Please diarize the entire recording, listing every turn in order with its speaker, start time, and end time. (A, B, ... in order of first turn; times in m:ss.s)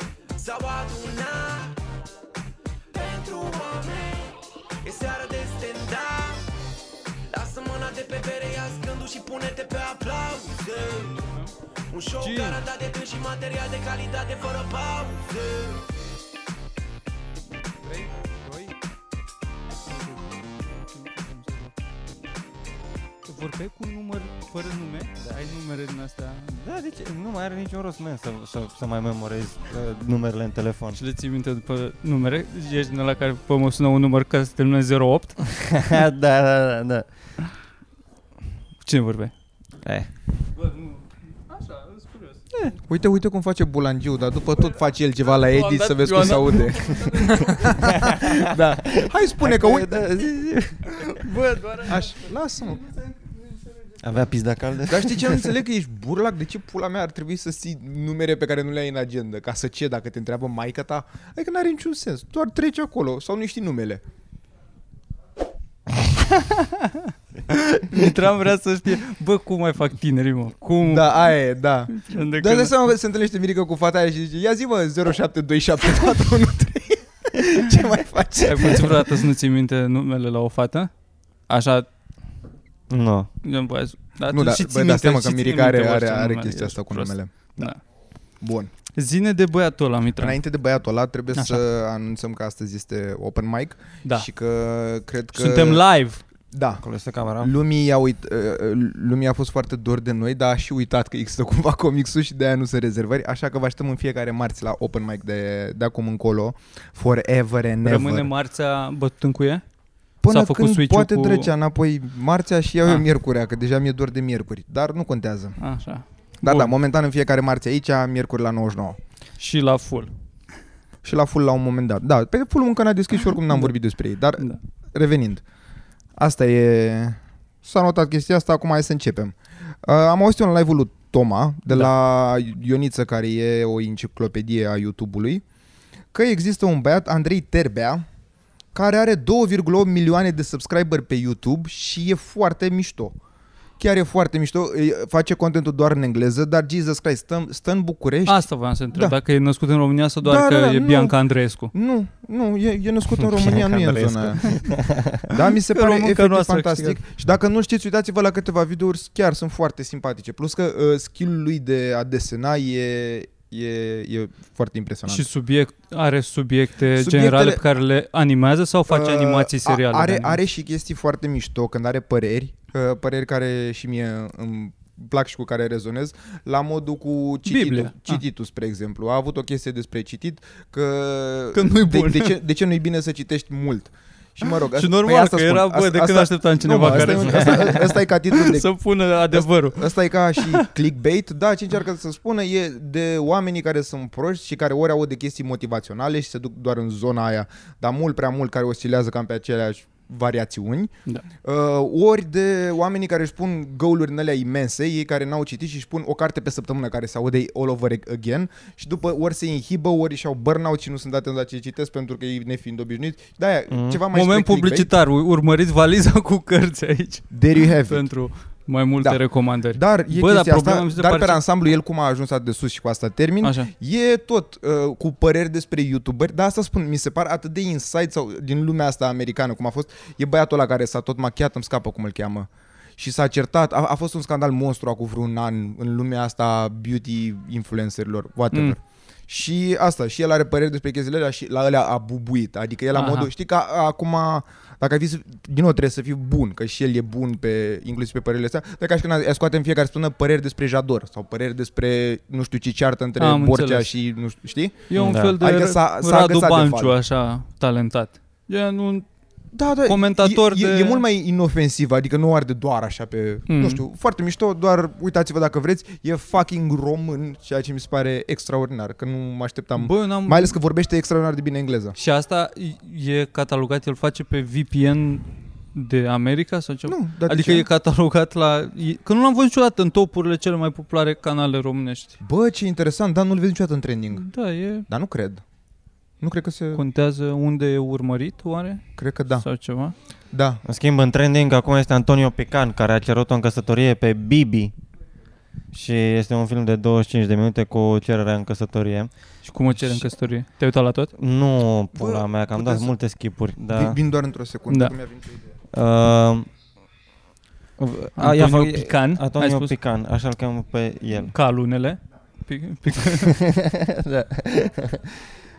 0:00.4-0:01.8 A
0:02.9-0:06.5 A
0:07.3-0:11.3 A
0:11.9-0:15.8 A
0:12.2-0:12.6 B
0:17.8-0:18.7 B
0:19.8-0:21.8 B
0:23.2-0:26.6 B
0:26.5-0:31.0 C
0:30.9-0:35.4 B
0:35.5-0:37.0 C
0:38.8-0:39.3 B
0:39.8-0:40.1 C
0:41.5-0:42.8 B
0:42.9-0:50.1 D
0:45.3-0:47.7 B
0:47.8-0:51.4 C
0:51.1-0:52.1 B
0:51.8-0:52.8 D
0:54.0-0:55.5 C
0:54.9-1:04.0 D
1:06.2-1:11.2 B
1:10.8-1:19.2 D
1:11.9-1:12.7 B
1:18.3-1:20.9 B
1:21.5-1:21.9 B
1:22.9-1:23.3 C
1:23.4-1:27.8 B
1:24.3-1:27.7 D
1:28.4-1:28.7 D
1:29.0-1:30.4 B
1:30.2-1:35.8 D
1:31.3-1:31.6 B
1:35.3-1:36.2 B
1:36.5-1:36.8 D
1:36.8-1:37.5 C
1:37.4-1:48.3 D
1:47.8-1:49.6 B
1:50.2-1:55.6 D
1:50.3-1:51.5 B
1:55.6-1:56.7 B
1:56.4-1:59.0 D
1:59.4-2:00.1 B
2:01.0-2:05.4 D
2:06.2-2:15.4 D
2:16.1-2:18.0 D
2:18.7-2:23.1 D
2:23.8-2:29.2 D
2:28.3-2:31.7 B
2:30.2-2:31.1 D
2:31.7-2:34.6 D
2:33.2-2:35.3 C
2:35.2-2:45.2 D
2:35.7-2:37.0 B
2:45.1-2:50.4 B
2:47.0-2:47.6 D
2:48.9-3:08.7 D
2:57.4-2:58.2 B
3:01.5-3:02.4 B
3:04.7-3:09.8 B
3:06.9-3:07.7 C
3:09.3-3:20.9 D
3:10.4-3:10.7 B
3:21.4-3:34.9 D
3:33.7-3:34.0 C
3:34.1-3:41.4 B
3:37.3-3:38.0 D
3:39.7-4:16.9 D
3:43.4-3:43.7 B
4:02.9-4:03.3 B
4:13.2-4:13.9 B
4:14.9-4:19.1 B
4:15.0-4:15.4 C
4:19.5-4:31.9 D
4:19.8-4:21.0 B
4:23.5-4:23.8 B
4:29.8-4:30.5 B
4:32.0-4:42.2 B
4:36.9-4:37.7 D
4:42.2-4:45.4 D
4:44.1-4:44.9 B
4:46.2-4:46.8 D
4:46.7-4:49.9 B
4:49.0-4:49.4 D
4:50.3-4:50.6 D
4:50.6-4:54.7 C
4:55.7-4:59.1 C
4:59.4-5:01.1 B
5:01.1-5:04.0 C
5:01.9-5:02.9 D
5:03.7-5:05.4 D
5:04.7-5:04.9 B
5:05.7-5:06.5 C
5:07.8-5:11.3 C
5:08.2-5:09.7 B
5:11.3-5:13.3 B
5:13.0-5:15.3 C